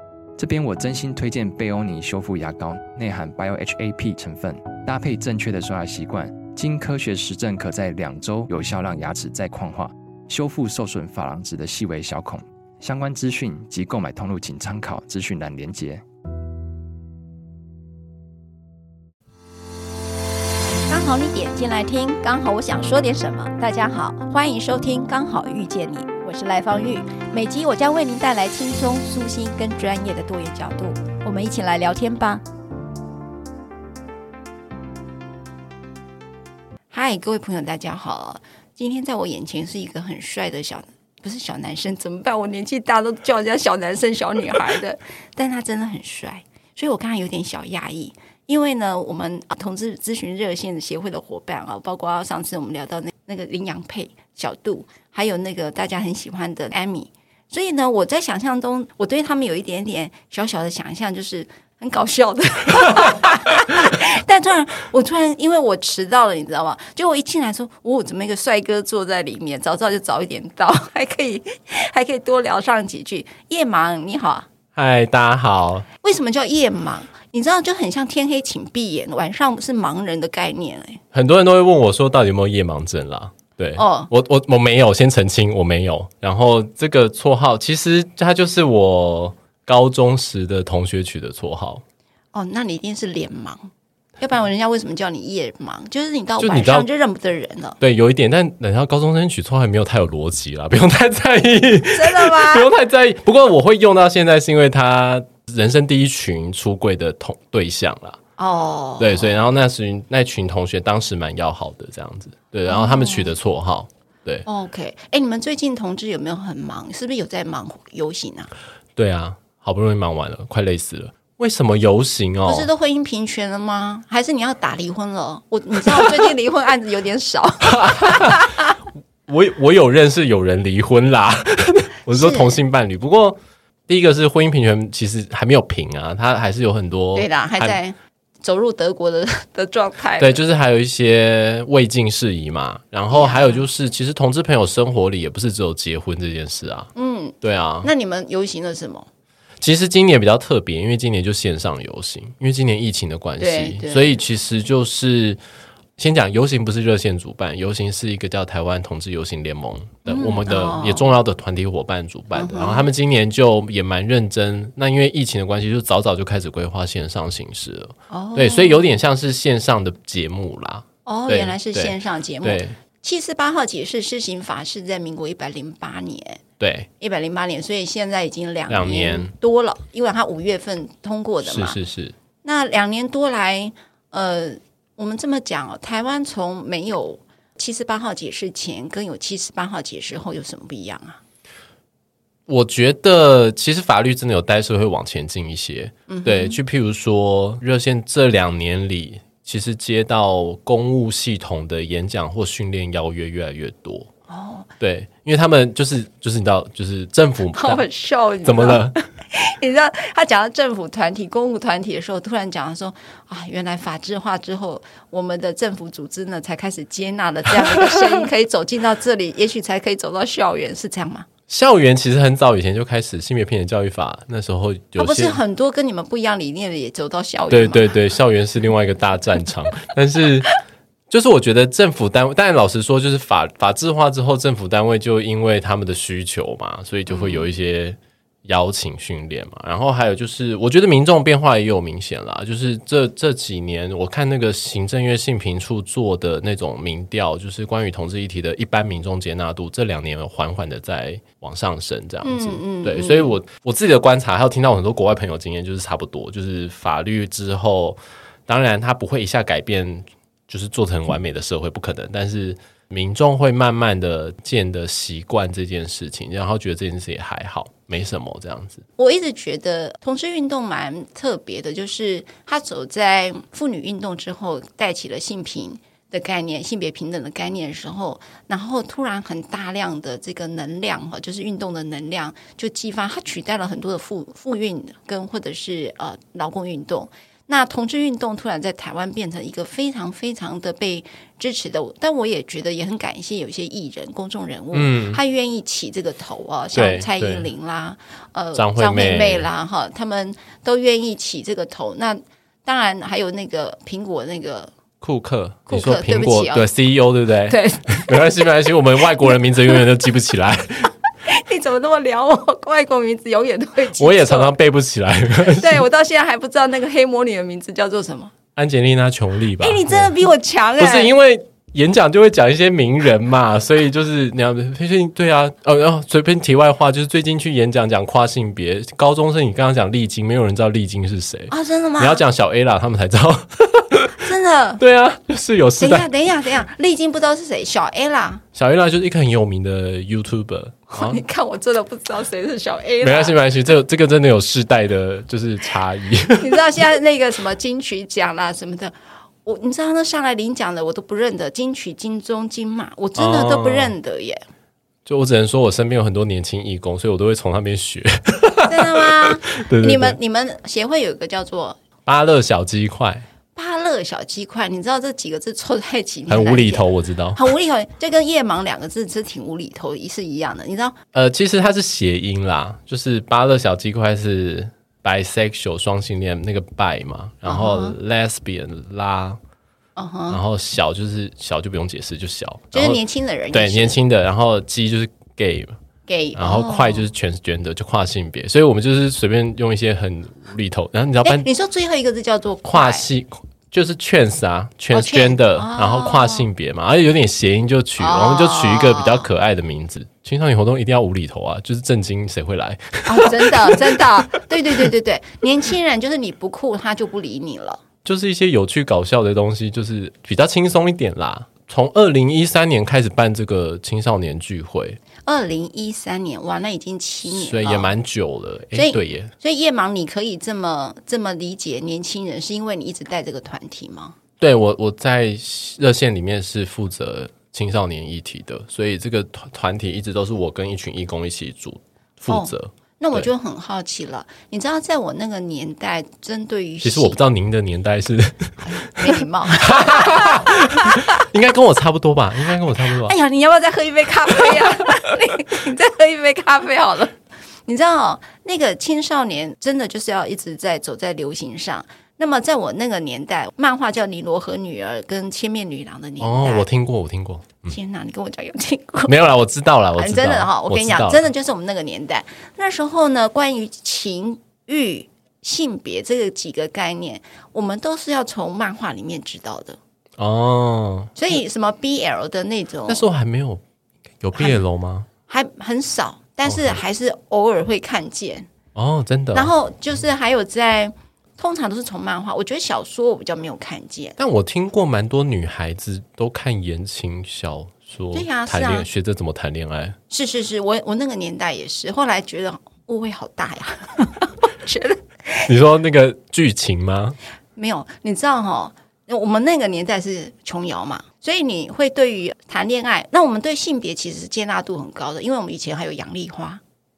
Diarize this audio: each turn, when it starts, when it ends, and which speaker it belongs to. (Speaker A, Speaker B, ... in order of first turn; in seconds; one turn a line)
Speaker A: 0.4-16.0
Speaker B: 20.9-32.4
Speaker B: 36.9-74.5
Speaker C: 74.7-75.9
Speaker B: 76.0-81.0
Speaker C: 81.1-91.8
Speaker B: 83.8-84.1
Speaker B: 92.3-97.8
Speaker C: 96.4-96.9
Speaker C: 97.8-108.2
Speaker B: 101.9-102.7
Speaker B: 108.4-109.4
Speaker C: 109.0-114.5
Speaker B: 112.7-113.3
Speaker B: 114.5-118.5
Speaker C: 119.0-122.7
Speaker B: 122.5-128.7
Speaker C: 127.6-128.7
Speaker C: 129.3-133.4
Speaker B: 132.1-132.6
Speaker C: 133.9-137.8
Speaker B: 137.1-140.4
Speaker C: 140.2-147.9
Speaker B: 143.1-143.6
Speaker B: 146.9-149.1
Speaker C: 149.6-155.4
Speaker B: 153.4-154.2
Speaker C: 156.0-172.8
Speaker B: 160.1-161.1
Speaker B: 162.3-162.9
Speaker B: 168.1-169.0
Speaker B: 171.1-176.4
Speaker C: 176.6-176.9
Speaker B: 177.0-181.8
Speaker C: 178.7-179.3
Speaker C: 181.4-182.1
Speaker B: 182.4-191.2
Speaker C: 192.5-204.1
Speaker B: 196.1-196.6
Speaker B: 204.3-204.7
Speaker C: 204.8-207.8
Speaker B: 207.5-221.3
Speaker C: 208.4-209.0
Speaker C: 217.7-218.1
Speaker C: 221.5-225.4
Speaker B: 225.0-227.9
Speaker C: 227.5-230.6
Speaker C: 231.1-268.8
Speaker B: 237.1-237.5
Speaker B: 252.2-253.4
Speaker B: 269.0-304.7
Speaker C: 294.7-295.2
Speaker C: 296.7-297.5
Speaker C: 298.5-299.5
Speaker C: 305.0-310.9
Speaker B: 305.7-306.7
Speaker B: 307.5-308.2
Speaker B: 309.2-309.8
Speaker B: 311.2-314.5
Speaker C: 314.0-315.8
Speaker B: 315.4-318.3
Speaker C: 318.6-320.2
Speaker B: 319.6-321.1
Speaker C: 320.8-336.1
Speaker B: 331.5-332.2
Speaker B: 334.2-334.8
Speaker B: 335.8-338.4
Speaker C: 338.5-341.2
Speaker B: 340.9-343.4
Speaker C: 343.0-346.8
Speaker B: 346.4-354.4
Speaker C: 353.1-353.9
Speaker C: 355.1-360.2
Speaker B: 358.7-361.8
Speaker C: 362.1-363.3
Speaker B: 363.5-371.0
Speaker C: 366.3-367.4
Speaker C: 371.1-379.4
Speaker B: 377.4-377.9
Speaker B: 380.0-380.4
Speaker C: 380.3-385.8
Speaker B: 382.7-384.0
Speaker B: 386.1-387.1
Speaker C: 386.3-391.4
Speaker B: 391.2-393.0
Speaker C: 392.7-404.1
Speaker B: 394.9-396.4
Speaker B: 398.0-399.3
Speaker B: 403.1-407.8
Speaker C: 408.0-415.0
Speaker B: 415.2-417.9
Speaker C: 417.3-419.3
Speaker B: 418.7-424.1
Speaker C: 424.4-433.3
Speaker B: 432.3-437.2
Speaker C: 436.8-443.1
Speaker B: 438.6-441.1
Speaker B: 443.0-456.6
Speaker C: 456.2-457.7
Speaker B: 457.7-459.1
Speaker C: 459.1-461.3
Speaker B: 460.0-469.8
Speaker C: 470.2-471.4
Speaker B: 471.1-473.0
Speaker C: 472.9-473.6
Speaker C: 474.2-475.1
Speaker B: 474.4-474.6
Speaker B: 475.3-478.5
Speaker C: 476.4-476.8
Speaker C: 478.7-479.5
Speaker B: 479.3-484.1
Speaker C: 484.2-490.0
Speaker B: 488.1-488.9
Speaker B: 490.1-495.4
Speaker C: 495.4-497.2
Speaker B: 497.6-506.6